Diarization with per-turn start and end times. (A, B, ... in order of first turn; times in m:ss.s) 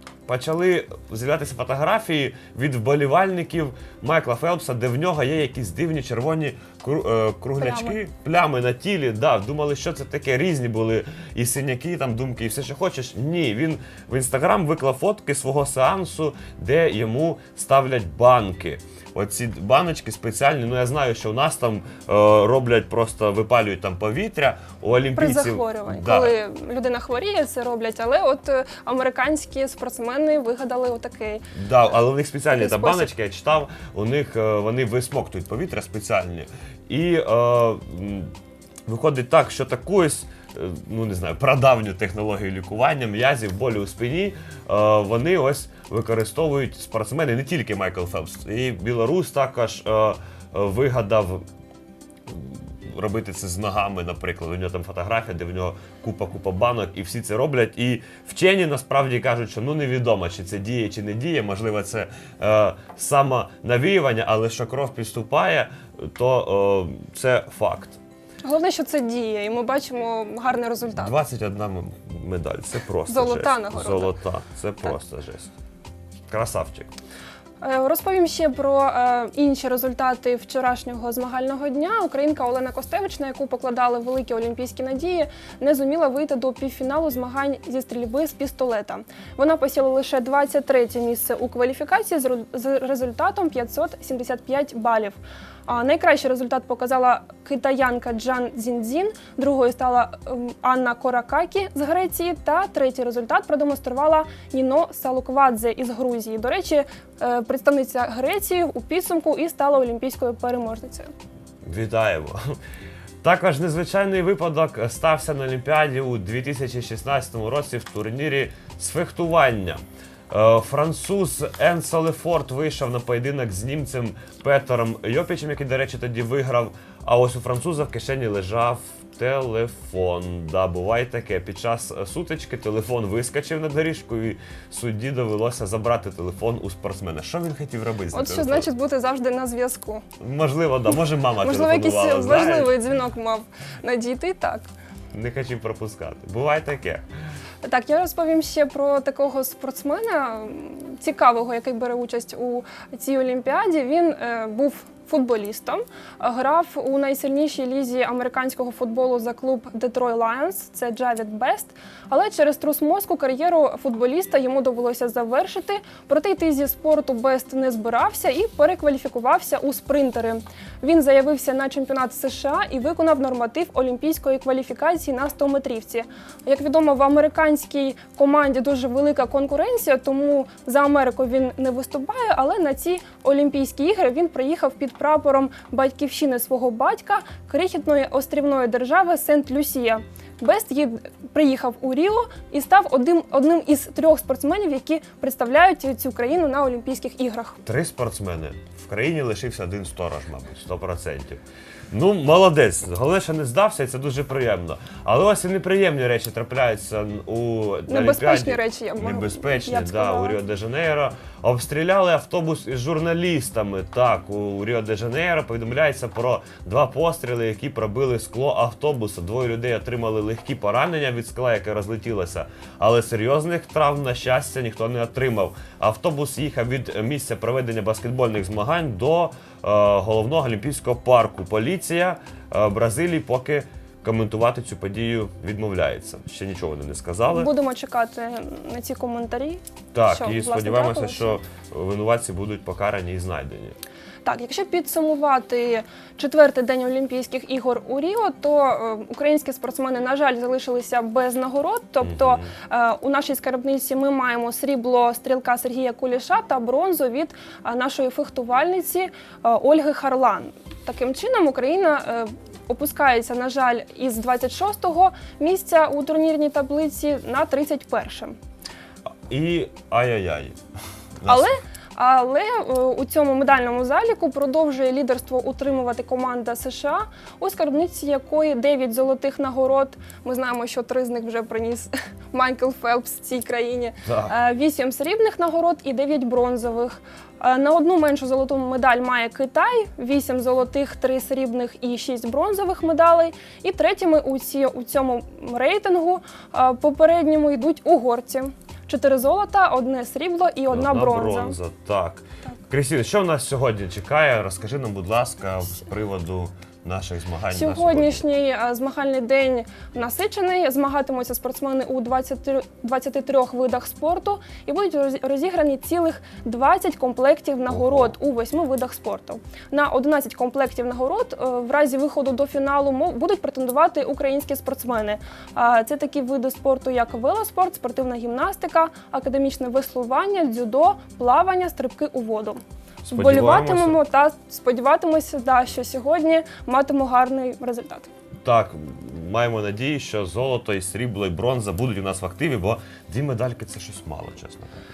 0:00.2-0:26.4 A
0:07.6-0:08.0 B
0:25.2-0:31.4 B
0:31.5-0:38.3 A
0:32.5-0:33.1 B
0:38.8-0:51.4 A
0:52.2-1:08.0 A
1:08.4-1:11.2 B
1:10.9-1:15.5 A
1:13.1-1:14.1 B
1:16.3-1:16.9 A
1:17.6-1:51.1 B
1:51.6-1:52.5 A
1:53.2-2:18.7 A
2:18.1-2:20.0 B
2:20.2-2:22.7 A
2:21.4-2:24.7 B
2:25.1-2:27.0 A
2:27.6-3:17.6 B
3:17.6-3:57.5 A
3:27.9-3:30.4 B
3:57.3-4:01.4 B
3:59.9-4:03.8 A
4:04.2-4:28.4 B
4:12.0-4:12.5 A
4:29.3-4:30.6 A
4:31.2-4:31.5 A
4:31.2-5:01.6 B
4:44.0-4:44.3 A
5:00.7-5:08.2 A
5:07.5-5:32.6 B
5:17.7-5:18.1 A
5:33.0-5:34.0 A
5:33.1-5:38.1 B
5:38.4-5:44.8 A